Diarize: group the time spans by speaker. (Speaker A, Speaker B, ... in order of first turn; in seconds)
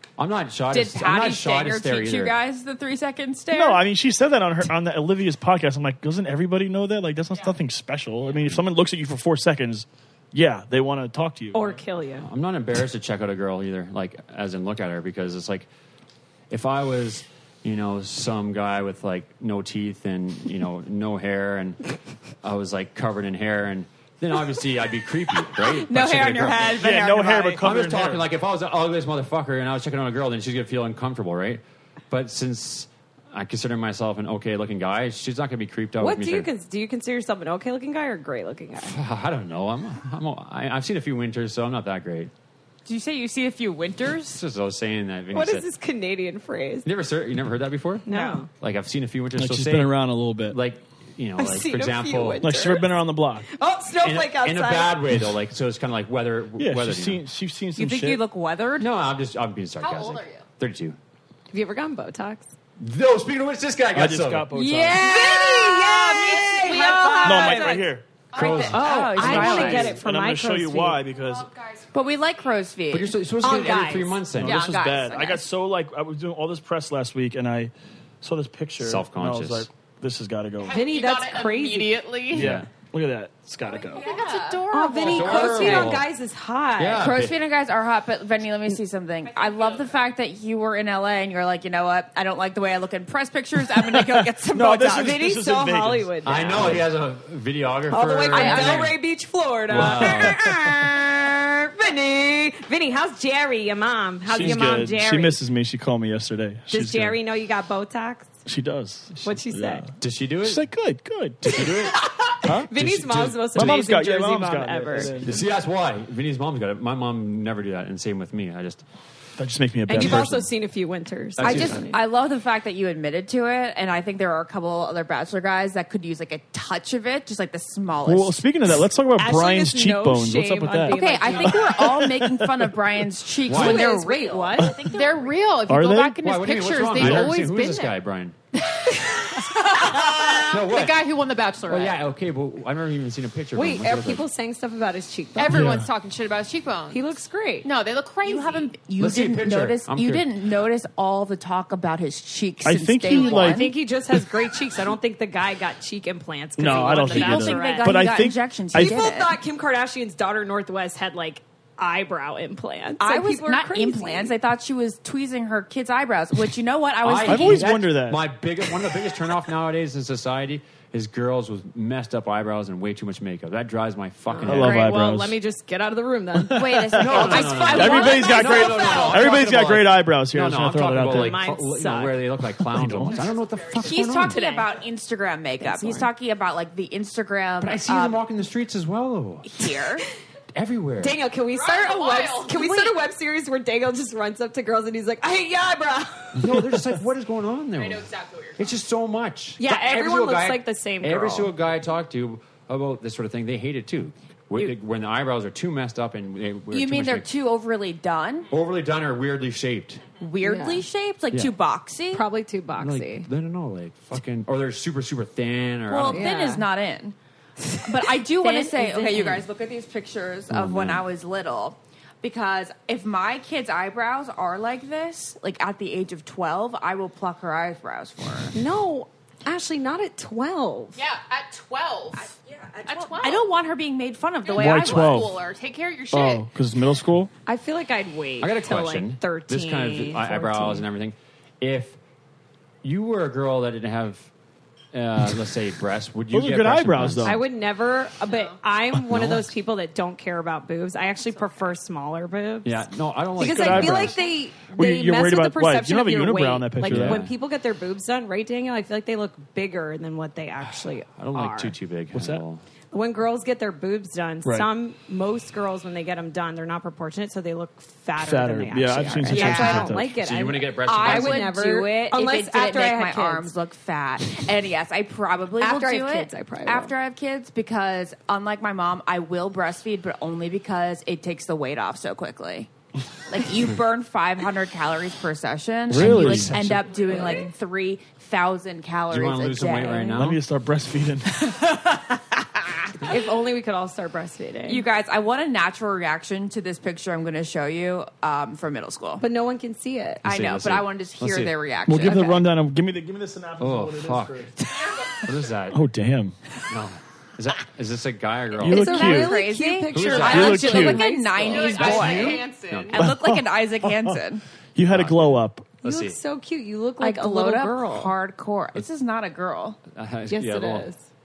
Speaker A: 0.2-2.4, 12.2-15.7, 16.5-21.8, 22.4-26.7, 27.6-36.5, 38.8-42.3, 44.3-45.7, 46.9-48.0, 48.6-50.0, 50.5-52.5, 54.0-57.2, 58.8-61.0, 62.8-64.5, 68.3-70.0, 72.9-74.6, 78.8-79.7, 82.3-82.7, 85.1-86.1, 86.8-87.4, 96.2-99.0, 99.7-100.4, 110.0-110.6, 111.5-112.0, 112.7-113.8, 115.0-118.9, 120.0-120.3, 133.5-134.0, 136.2-138.4, 139.9-141.1, 141.7-144.2, 149.0-150.3, 167.0-174.8, 177.0-184.4, 187.6-189.5, 190.5-191.2, 196.3-207.3, 208.5-210.0, 212.8-216.3, 220.5-221.1, 238.4-242.0, 242.8-244.3, 244.9-247.4, 249.0-249.5, 252.6-254.2, 256.8-257.4, 261.1-262.6, 269.3-271.5, 285.9-287.4, 289.1-290.4, 300.2-301.5, 303.6-304.5, 305.2-305.8, 306.7-308.9, 309.9-310.6, 311.7-313.0, 314.9-316.2, 319.9-320.9
Speaker B: 0.7-3.8, 25.6-27.7, 42.9-44.4, 48.1-48.4, 57.8-58.9, 64.9-67.8, 68.6-69.9, 71.9-73.2, 74.4-75.4, 83.9-85.9, 87.0-95.2, 98.3-98.9, 121.4-128.4, 130.9-135.6, 148.2-153.7, 156.7-159.4, 163.0-167.7, 176.5-179.4, 183.8-188.2, 189.4-190.1, 192.5-192.9, 206.7-208.5, 210.2-212.2, 215.9-217.2, 217.8-228.6, 232.5-235.3, 269.3-269.9, 270.9-282.7, 283.3-290.3, 291.4-292.8, 294.7-299.2, 300.2-302.3, 308.7-314.4, 317.0-319.8
Speaker C: 3.5-11.8, 26.7-28.3, 49.4-50.6, 52.4-53.5, 56.6-58.2, 63.9-65.2, 67.2-68.0, 69.2-71.5, 74.3-77.7, 78.2-80.8, 82.3-84.1, 93.8-96.9, 99.7-100.8, 104.3-107.2, 108.5-109.9, 110.4-111.9, 112.4-115.4, 119.4-120.5, 121.4-121.8, 128.1-132.8, 135.7-136.2, 136.9-137.3, 145.5-145.9, 152.6-153.7, 156.6-159.0, 167.2-168.3, 174.4-175.4, 176.4-181.4, 182.6-183.2, 234.6-235.4, 236.1-237.3, 246.3-247.4, 253.4-257.2, 262.1-262.4, 264.4-264.7, 268.2-270.1, 285.9-286.6, 290.2-291.5, 301.9-304.6, 305.7-306.4, 308.6-309.4, 310.2-311.1, 312.9-314.1, 314.8-315.7
Speaker D: 11.5-12.3, 36.0-39.0, 45.3-46.9, 48.1-48.5, 51.4-55.0, 61.5-62.5, 64.5-67.9, 68.7-71.0, 73.4-74.2, 80.6-82.1, 84.7-87.1, 94.9-96.9, 97.9-105.4, 106.7-108.3, 109.2-109.9, 111.6-115.2, 119.9-122.0, 129.2-131.8, 133.5-134.8, 143.6-145.7, 146.9-147.7, 153.3-158.1, 158.7-164.3, 174.4-178.3, 181.0-182.2, 184.3-184.7, 185.6-186.1, 191.0-196.8, 199.6-201.5, 210.4-210.8, 212.1-213.3, 216.1-216.6, 217.6-219.4, 228.5-231.0, 237.5-240.9, 247.2-252.8, 253.4-261.8, 262.9-273.5, 275.6-276.9, 293.0-294.8, 299.2-300.2, 302.1-302.4, 308.6-311.8, 315.8-318.1, 320.3-321.0
Speaker E: 59.8-60.5, 65.1-65.8, 66.3-67.6, 68.3-69.0, 71.0-72.2, 80.6-82.5, 83.6-85.9, 89.2-90.0, 134.9-137.9, 138.6-142.0, 145.4-147.0, 147.7-148.7, 183.2-184.0, 191.5-192.6, 197.8-198.7, 231.0-232.3, 232.8-233.5, 234.4-236.5, 248.3-248.6, 304.7-305.3, 311.4-313.1